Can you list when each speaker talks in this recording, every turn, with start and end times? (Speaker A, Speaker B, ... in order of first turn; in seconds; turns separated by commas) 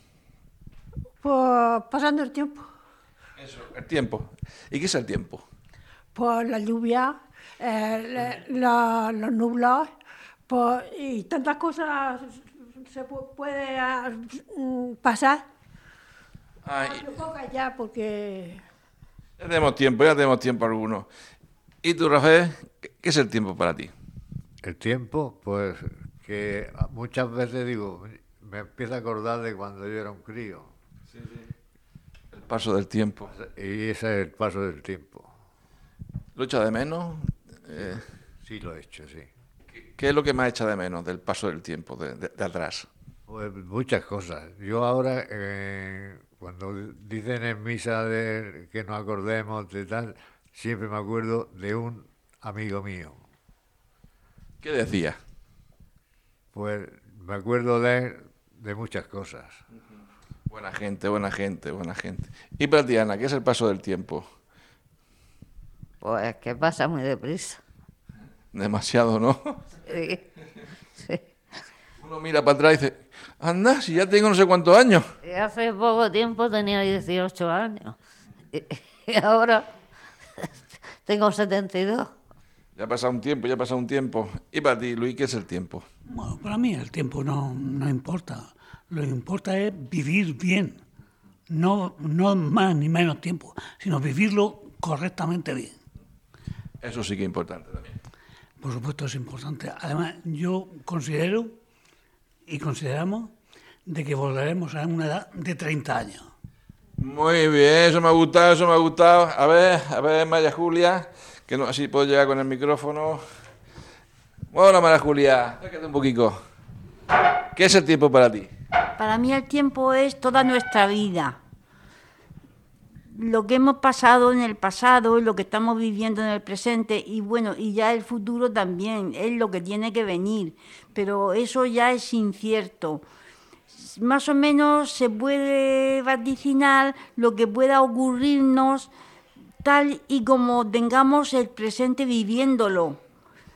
Speaker A: 1.2-2.6, Speaker B: 3.4-5.4, Speaker A: 6.1-9.9, Speaker A: 10.5-15.4, Speaker B: 16.6-17.2, Speaker A: 16.8-18.6, Speaker B: 19.4-21.1, Speaker B: 21.8-23.9, Speaker C: 24.6-30.7, Speaker B: 31.1-31.4, Speaker B: 32.3-33.3, Speaker C: 33.3-35.3, Speaker B: 36.4-38.0, Speaker C: 38.4-39.3, Speaker B: 39.7-42.9, Speaker C: 43.3-53.2, Speaker B: 54.6-55.2, Speaker C: 56.5-59.6, Speaker B: 60.5-64.2, Speaker D: 66.0-67.6, Speaker B: 68.5-69.6, Speaker D: 69.8-70.2, Speaker B: 72.0-75.0, Speaker D: 75.2-78.0, Speaker D: 78.5-79.7, Speaker D: 81.0-82.1, Speaker B: 82.8-85.8, Speaker E: 86.1-90.8, Speaker E: 91.5-95.8, Speaker B: 96.8-98.0, Speaker E: 98.6-101.6, Speaker E: 102.5-103.3, Speaker E: 103.8-106.2, Speaker B: 107.0-113.2, Speaker B: 114.5-116.4, Speaker B: 117.5-118.5, Speaker F: 119.0-121.4, Speaker F: 123.1-133.0, Speaker F: 133.8-138.9, Speaker F: 139.6-143.0